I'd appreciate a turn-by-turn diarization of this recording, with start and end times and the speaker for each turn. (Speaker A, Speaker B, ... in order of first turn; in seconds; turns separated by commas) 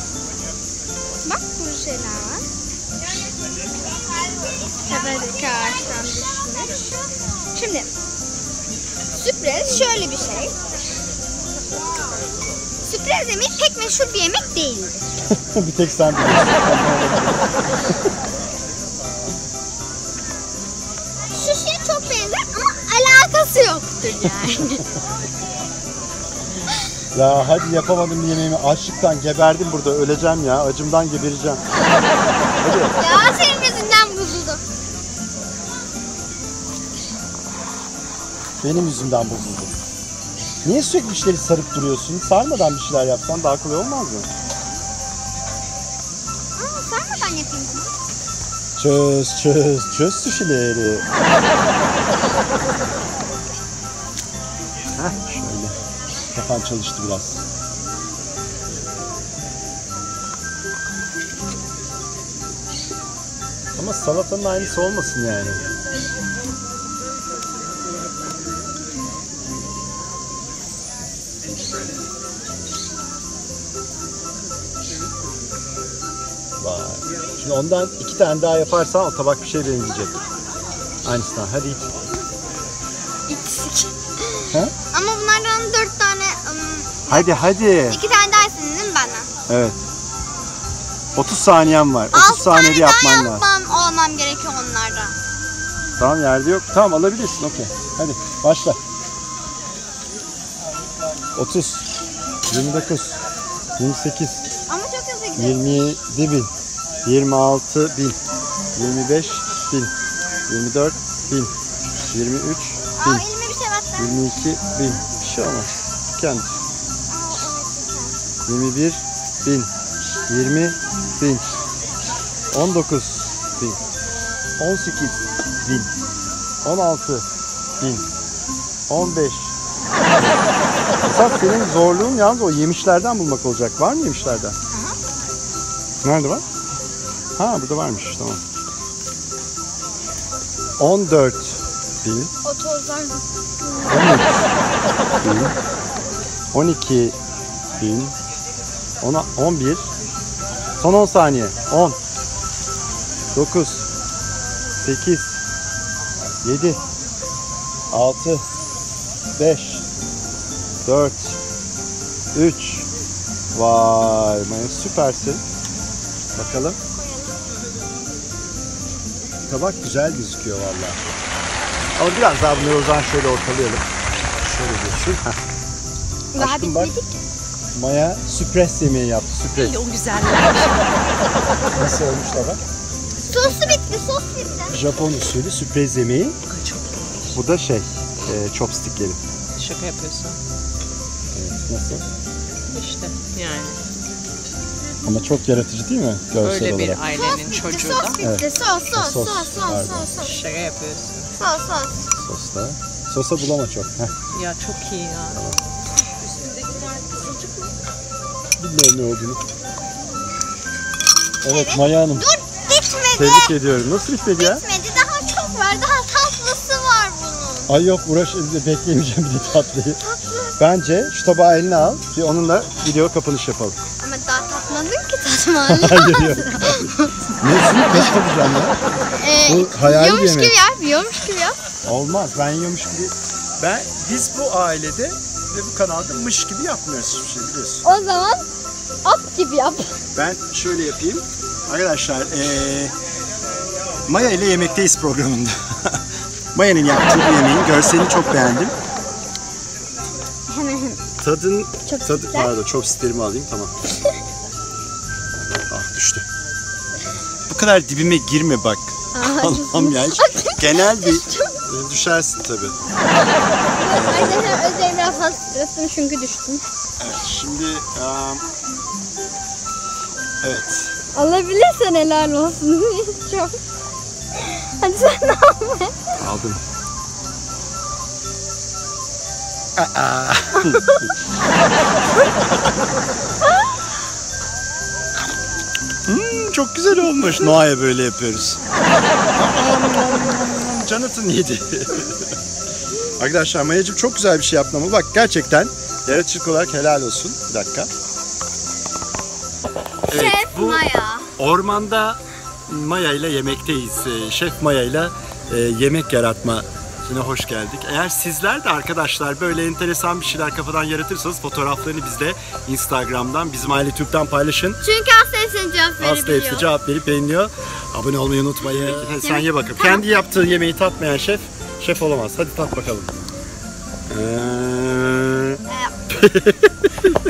Speaker A: 1.2-2.4, Speaker A: 4.8-7.0, Speaker A: 7.5-7.9, Speaker A: 9.1-10.5, Speaker A: 12.8-15.0, Speaker B: 15.3-17.5, Speaker A: 21.3-24.8, Speaker B: 24.4-24.8, Speaker B: 27.1-31.6, Speaker B: 32.6-32.9, Speaker A: 33.0-34.6, Speaker B: 38.6-39.7, Speaker B: 40.6-44.3, Speaker A: 46.6-47.9, Speaker B: 48.8-51.0, Speaker B: 55.0-55.7, Speaker B: 56.4-57.4, Speaker B: 63.8-65.6, Speaker B: 76.6-80.2, Speaker B: 81.0-81.9, Speaker A: 83.3-89.3, Speaker B: 87.1-88.0, Speaker B: 89.5-89.8, Speaker B: 91.1-93.5, Speaker A: 92.1-95.1, Speaker B: 96.0-98.8, Speaker B: 101.3-101.8, Speaker B: 102.5-103.2, Speaker B: 103.8-104.5, Speaker A: 104.7-105.8, Speaker B: 105.3-106.5, Speaker B: 107.0-108.2, Speaker B: 108.8-109.9, Speaker B: 110.5-111.5, Speaker B: 112.1-113.2, Speaker A: 113.0-114.1, Speaker B: 114.0-116.5, Speaker A: 117.1-118.2, Speaker B: 118.5-119.7, Speaker B: 120.3-121.5, Speaker B: 122.5-123.8, Speaker B: 124.6-125.9, Speaker B: 126.6-127.2, Speaker B: 127.8-128.1, Speaker B: 128.9-129.5, Speaker B: 131.0-134.6, Speaker B: 136.0-136.4, Speaker B: 137.4-138.4, Speaker B: 140.8-142.3, Speaker A: 142.4-144.1, Speaker B: 143.9-144.5, Speaker B: 145.2-145.5, Speaker B: 146.5-147.1, Speaker B: 147.8-148.1, Speaker B: 149.0-149.8, Speaker B: 150.8-151.9, Speaker B: 153.3-153.8, Speaker B: 154.8-155.4, Speaker B: 156.4-156.8, Speaker B: 157.9-158.4, Speaker B: 159.4-159.8, Speaker B: 160.8-161.4, Speaker B: 162.3-162.8, Speaker B: 163.5-165.4, Speaker B: 166.3-166.8, Speaker A: 166.9-167.4, Speaker B: 169.5-171.0, Speaker B: 172.0-173.8, Speaker B: 174.4-175.3, Speaker A: 176.3-177.2, Speaker B: 176.3-176.9, Speaker B: 177.7-179.8, Speaker C: 179.5-180.7, Speaker B: 181.7-182.6, Speaker A: 183.3-184.8, Speaker C: 183.3-183.8, Speaker B: 184.7-186.4, Speaker C: 186.5-187.2, Speaker B: 187.3-189.2, Speaker C: 189.6-190.4, Speaker B: 191.3-192.0, Speaker C: 192.7-193.8, Speaker B: 195.0-197.0, Speaker C: 196.4-198.2, Speaker A: 197.1-200.3, Speaker B: 198.2-200.1, Speaker C: 200.2-201.3, Speaker A: 201.3-202.0, Speaker B: 202.2-204.1, Speaker C: 204.3-205.4, Speaker B: 205.3-205.6, Speaker C: 206.2-207.7, Speaker B: 208.6-209.4, Speaker B: 211.4-212.3, Speaker A: 211.4-213.6, Speaker B: 213.1-214.6, Speaker A: 214.4-217.7, Speaker B: 217.7-220.0, Speaker A: 220.0-220.6, Speaker B: 220.6-223.8, Speaker A: 224.0-227.1, Speaker B: 225.7-226.9, Speaker B: 227.4-228.8, Speaker A: 229.2-231.6, Speaker B: 229.4-230.6, Speaker B: 231.8-237.8, Speaker A: 237.8-238.4, Speaker A: 239.0-239.9, Speaker B: 240.2-242.9, Speaker B: 244.1-245.9, Speaker B: 246.5-248.7, Speaker A: 250.5-251.0, Speaker B: 251.2-253.7, Speaker A: 251.8-252.5, Speaker B: 255.7-256.2, Speaker B: 257.5-262.8, Speaker A: 259.1-261.5, Speaker A: 263.8-266.6, Speaker B: 263.9-264.6, Speaker B: 267.0-268.4, Speaker B: 270.4-270.9, Speaker A: 271.1-273.6, Speaker A: 274.4-275.9, Speaker B: 276.2-276.6, Speaker B: 279.8-280.9, Speaker B: 286.1-288.6, Speaker B: 289.3-292.1, Speaker B: 293.2-297.9, Speaker B: 300.1-300.9, Speaker A: 300.1-301.3, Speaker B: 301.4-314.8, Speaker A: 314.8-316.7, Speaker B: 316.0-323.2, Speaker A: 319.2-320.1, Speaker B: 324.1-325.6, Speaker A: 325.7-325.9, Speaker B: 326.1-327.1